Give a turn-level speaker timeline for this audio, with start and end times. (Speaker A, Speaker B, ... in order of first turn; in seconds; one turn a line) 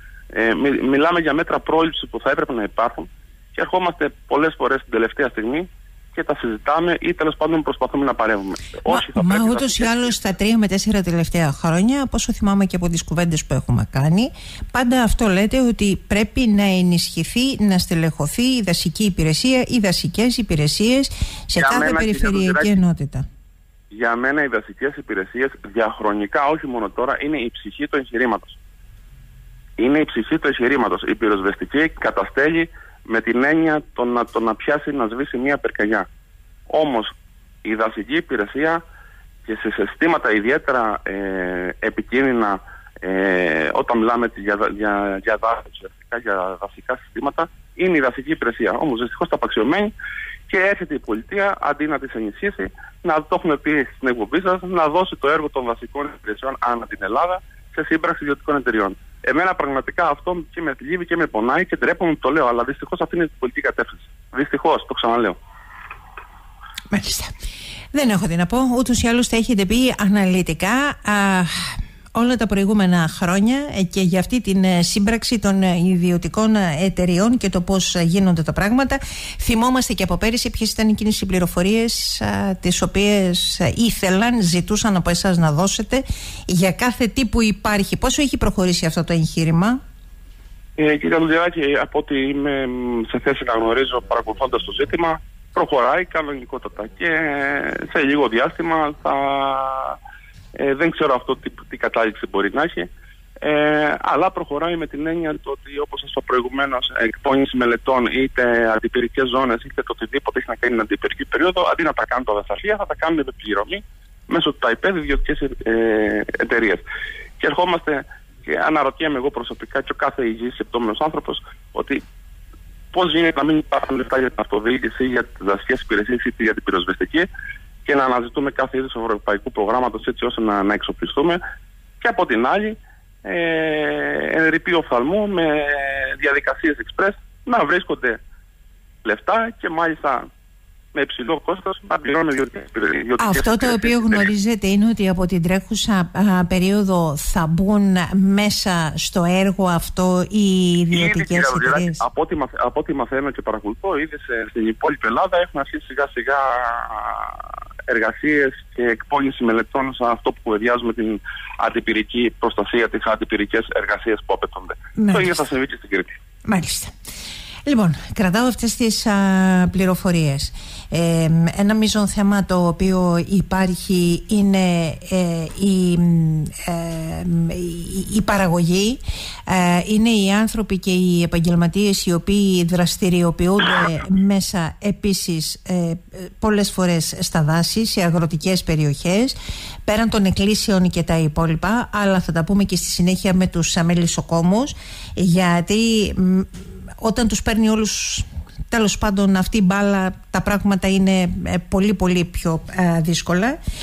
Speaker A: 0.3-10.2
Speaker B: 8.9-23.2
Speaker A: 21.6-22.8
Speaker A: 23.9-28.6
Speaker A: 29.8-36.1
Speaker A: 36.7-38.8
Speaker A: 39.4-49.9
Speaker A: 50.5-65.4
Speaker B: 66.9-67.3
Speaker B: 67.9-89.8
Speaker A: 90.8-100.0
Speaker A: 100.6-102.9
Speaker A: 103.4-116.8
Speaker A: 117.4-122.0
Speaker A: 122.9-127.3
Speaker A: 127.8-131.4
Speaker A: 132.0-138.2
Speaker A: 139.0-140.3
Speaker A: 140.9-144.3
Speaker B: 143.2-152.0
Speaker A: 150.9-166.1
Speaker B: 164.9-165.3
Speaker B: 166.4-166.9
Speaker B: 167.7-203.6